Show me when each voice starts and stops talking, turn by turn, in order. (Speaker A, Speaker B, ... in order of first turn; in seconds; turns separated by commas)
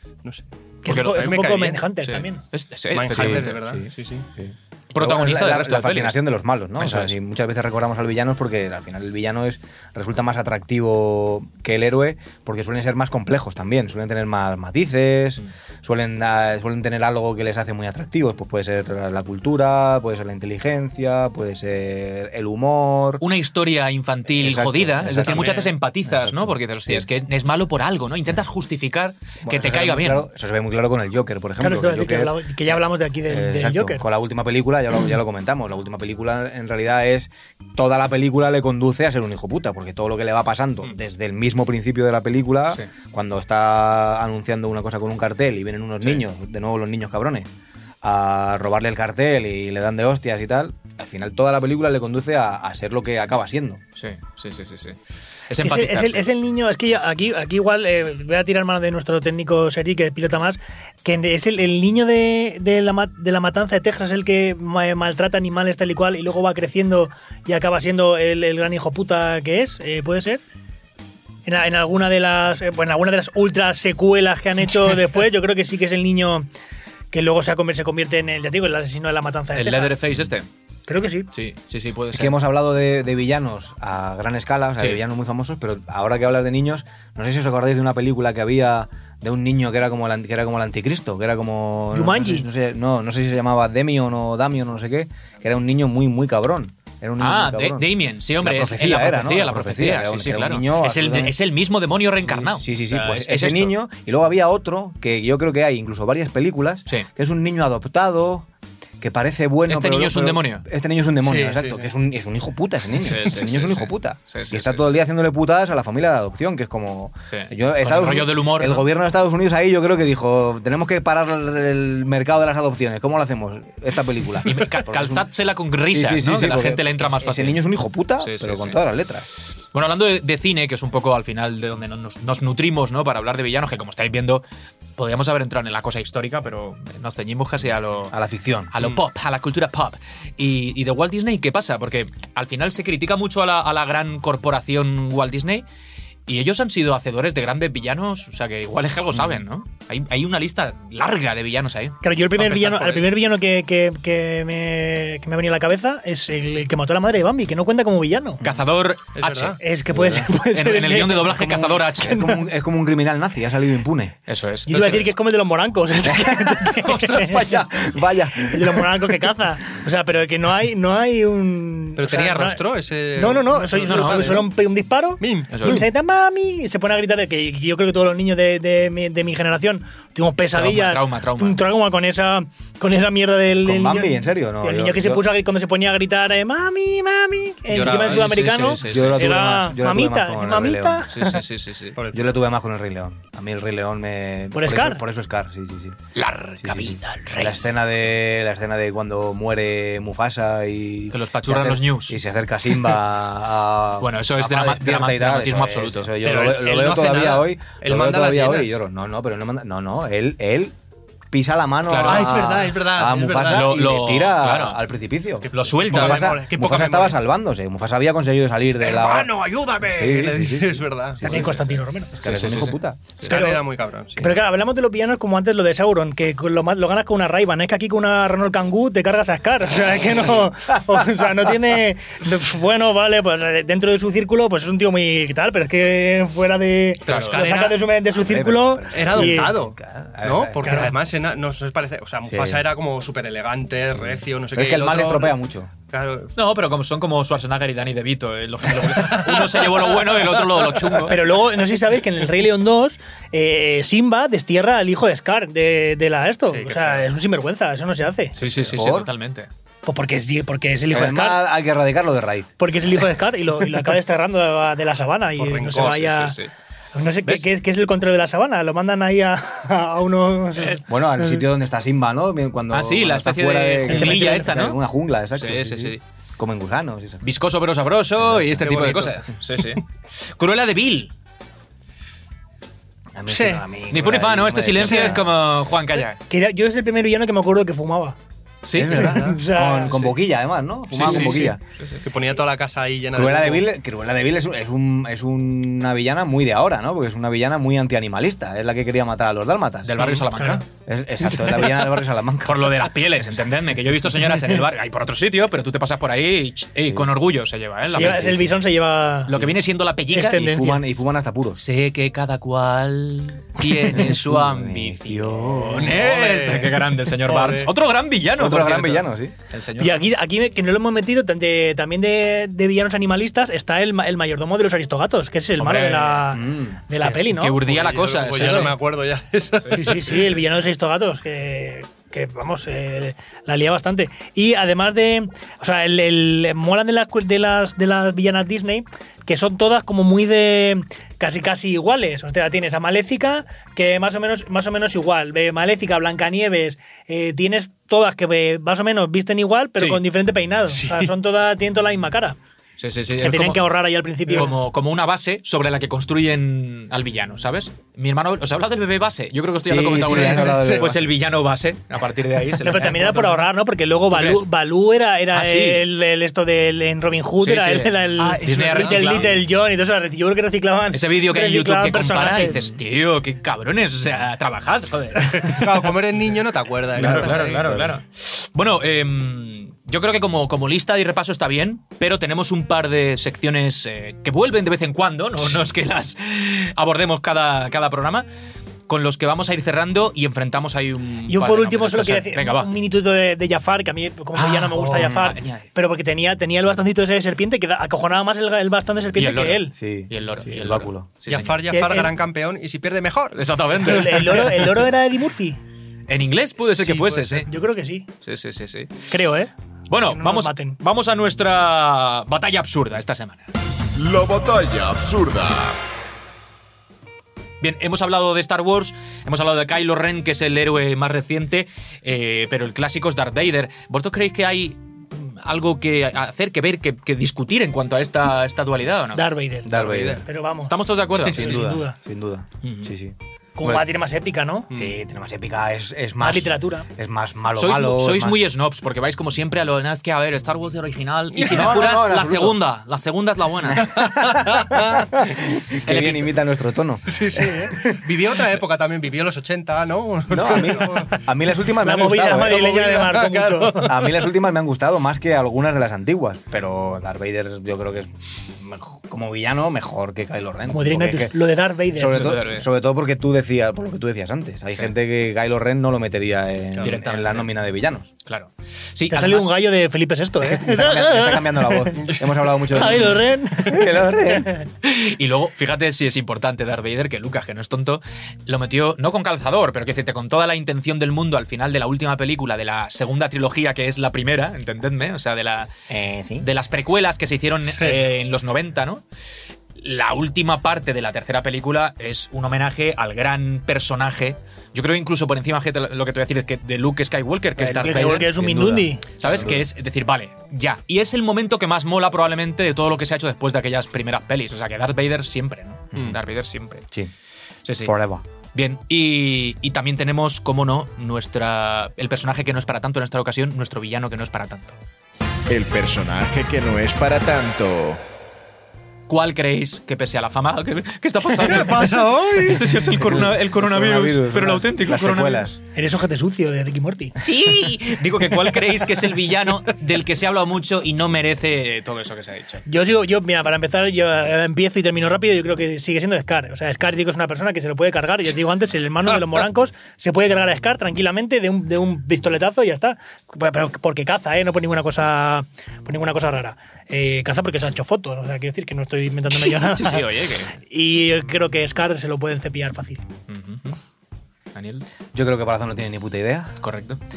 Speaker A: 0.2-1.9, Speaker B: 0.8-2.4, Speaker C: 0.9-1.4, Speaker C: 2.0-3.6, Speaker A: 2.9-4.3, Speaker D: 3.1-23.2, Speaker C: 4.9-6.2, Speaker C: 6.8-7.2, Speaker C: 23.2-30.3, Speaker D: 24.3-27.1, Speaker D: 29.4-32.4, Speaker B: 31.6-34.0, Speaker D: 33.3-47.5, Speaker D: 48.0-53.8, Speaker C: 54.0-55.0, Speaker C: 55.5-56.3, Speaker B: 55.6-70.4, Speaker B: 71.5-76.5, Speaker B: 77.1-80.0, Speaker C: 79.5-80.5, Speaker B: 80.9-81.3, Speaker C: 81.3-82.3, Speaker D: 82.1-101.4, Speaker B: 91.9-92.5, Speaker C: 97.2-103.7, Speaker D: 102.2-108.5, Speaker D: 109.0-125.3, Speaker C: 109.7-110.7, Speaker A: 111.2-111.9, Speaker C: 113.0-114.9, Speaker C: 117.3-118.9, Speaker C: 124.4-127.6, Speaker D: 125.9-129.3, Speaker C: 128.2-128.8, Speaker C: 129.7-134.4, Speaker C: 135.0-138.1, Speaker D: 138.1-138.7, Speaker C: 138.7-145.7, Speaker C: 146.3-152.0, Speaker B: 152.0-158.4, Speaker A: 152.3-153.1, Speaker C: 158.4-159.6, Speaker A: 159.1-159.6, Speaker B: 159.6-162.4, Speaker D: 159.9-160.3, Speaker C: 160.3-162.2, Speaker D: 161.4-164.2, Speaker C: 164.3-165.1, Speaker B: 164.7-167.5, Speaker D: 166.1-169.1, Speaker B: 168.4-172.6, Speaker A: 172.0-174.5, Speaker B: 173.1-191.4, Speaker C: 173.8-174.3, Speaker A: 175.2-175.6, Speaker C: 175.5-175.8, Speaker C: 180.5-181.6, Speaker D: 183.6-185.2, Speaker A: 187.7-188.4, Speaker C: 187.8-189.3, Speaker D: 188.8-191.3, Speaker C: 191.1-192.0, Speaker A: 192.0-192.2, Speaker D: 192.1-196.0, Speaker B: 194.5-195.0, Speaker C: 196.2-197.7, Speaker D: 196.6-210.8, Speaker C: 201.1-202.2, Speaker C: 204.0-206.1, Speaker A: 206.2-208.7, Speaker D: 211.3-223.2, Speaker C: 211.9-212.6, Speaker A: 212.0-213.8, Speaker C: 213.5-214.8, Speaker C: 215.4-216.4, Speaker A: 215.9-217.2, Speaker B: 218.8-220.4, Speaker A: 220.0-221.7, Speaker B: 221.2-222.1, Speaker C: 222.2-223.3, Speaker A: 223.2-224.3, Speaker B: 223.3-223.6, Speaker B: 224.2-239.5, Speaker A: 237.1-237.8, Speaker C: 237.1-237.4, Speaker D: 238.1-240.9, Speaker A: 238.9-245.4, Speaker B: 240.6-241.0, Speaker D: 242.3-242.7, Speaker D: 243.9-245.7, Speaker A: 245.9-246.3, Speaker C: 246.4-251.2, Speaker A: 248.7-251.1, Speaker B: 251.1-258.4, Speaker A: 256.5-257.1, Speaker C: 258.4-259.5, Speaker D: 258.7-259.1, Speaker B: 259.9-261.4, Speaker D: 260.9-262.5, Speaker B: 262.6-266.4, Speaker A: 265.4-266.1, Speaker C: 265.8-266.5, Speaker B: 266.9-271.3, Speaker D: 270.9-277.2, Speaker C: 272.7-274.8, Speaker B: 273.9-274.5, Speaker C: 275.4-276.0, Speaker C: 277.2-279.8, Speaker D: 278.2-278.7, Speaker A: 278.6-279.1, Speaker C: 280.3-281.1, Speaker D: 283.2-285.3, Speaker A: 283.3-283.7, Speaker C: 283.9-286.2, Speaker A: 284.8-285.2, Speaker B: 286.3-288.2, Speaker C: 288.6-289.2, Speaker D: 288.8-291.6, Speaker B: 288.9-290.1, Speaker C: 290.9-292.0, Speaker A: 290.9-293.7, Speaker D: 293.1-300.2, Speaker C: 299.8-300.7, Speaker B: 300.3-300.6, Speaker D: 300.9-302.9, Speaker C: 302.4-308.4, Speaker D: 307.9-308.6, Speaker B: 307.9-309.3, Speaker C: 309.3-310.5, Speaker D: 309.3-309.6, Speaker B: 310.1-310.8, Speaker D: 310.3-311.6, Speaker C: 311.6-320.0, Speaker D: 313.9-316.0, Speaker A: 315.7-317.7, Speaker D: 318.4-319.4, Speaker B: 319.8-327.6, Speaker C: 325.6-326.4, Speaker D: 326.3-326.8, Speaker C: 326.9-328.8, Speaker A: 327.6-330.4, Speaker B: 328.4-328.7, Speaker B: 329.7-352.4, Speaker C: 349.8-350.0, Speaker A: 350.7-351.1, Speaker C: 352.8-353.6, Speaker B: 353.2-354.5, Speaker C: 354.3-363.5, Speaker D: 359.6-361.2, Speaker A: 360.0-360.9, Speaker B: 362.6-372.7, Speaker C: 364.1-364.5, Speaker C: 365.3-365.9, Speaker C: 367.4-369.4, Speaker A: 368.2-369.4, Speaker C: 370.9-375.9, Speaker A: 375.3-377.8, Speaker C: 376.9-388.3, Speaker D: 377.0-377.9, Speaker C: 388.9-392.7, Speaker B: 391.3-399.7, Speaker C: 394.4-395.7, Speaker C: 399.1-401.6, Speaker D: 399.8-401.1, Speaker A: 401.3-404.2, Speaker B: 401.7-402.1, Speaker C: 403.3-404.9, Speaker B: 403.8-405.6, Speaker C: 406.1-407.5, Speaker A: 406.7-407.2, Speaker B: 406.9-408.1, Speaker C: 408.2-409.0, Speaker B: 409.1-410.8, Speaker C: 409.9-413.5, Speaker E: 413.9-415.8, Speaker C: 417.6-429.2, Speaker B: 429.1-430.8, Speaker D: 429.6-430.2, Speaker A: 429.7-430.2, Speaker C: 430.6-431.6, Speaker D: 431.1-433.9, Speaker B: 431.3-432.0, Speaker C: 432.6-432.9, Speaker B: 433.6-434.7, Speaker A: 434.7-435.0, Speaker D: 434.7-438.4, Speaker B: 436.2-436.9, Speaker C: 437.6-443.9, Speaker A: 441.4-441.7, Speaker D: 441.4-442.6, Speaker D: 443.6-448.0, Speaker A: 443.8-445.1, Speaker C: 445.8-446.3, Speaker A: 447.1-451.2, Speaker D: 450.3-452.7, Speaker B: 451.8-453.9, Speaker A: 452.3-454.1, Speaker D: 453.8-461.4, Speaker B: 460.7-462.4, Speaker D: 461.9-468.1, Speaker C: 462.1-462.7, Speaker C: 466.8-467.5, Speaker C: 468.2-469.6, Speaker B: 469.1-472.2, Speaker D: 470.4-474.5, Speaker A: 472.0-472.8, Speaker B: 472.7-474.7, Speaker C: 474.8-485.7, Speaker D: 485.9-486.5, Speaker C: 486.4-489.0, Speaker A: 487.7-488.0, Speaker C: 489.8-498.4, Speaker B: 497.6-499.1, Speaker D: 498.1-499.6, Speaker C: 499.2-506.9, Speaker C: 507.7-507.9, Speaker D: 507.8-508.2, Speaker C: 508.5-514.8, Speaker E: 515.5-518.0, Speaker C: 519.1-525.6, Speaker A: 521.4-522.9, Speaker D: 522.8-525.6, Speaker B: 525.8-527.2, Speaker C: 527.2-532.6, Speaker B: 532.7-553.0, Speaker C: 549.5-550.5, Speaker C: 553.3-553.8, Speaker C: 554.5-554.9, Speaker D: 555.1-556.6, Speaker C: 556.6-557.0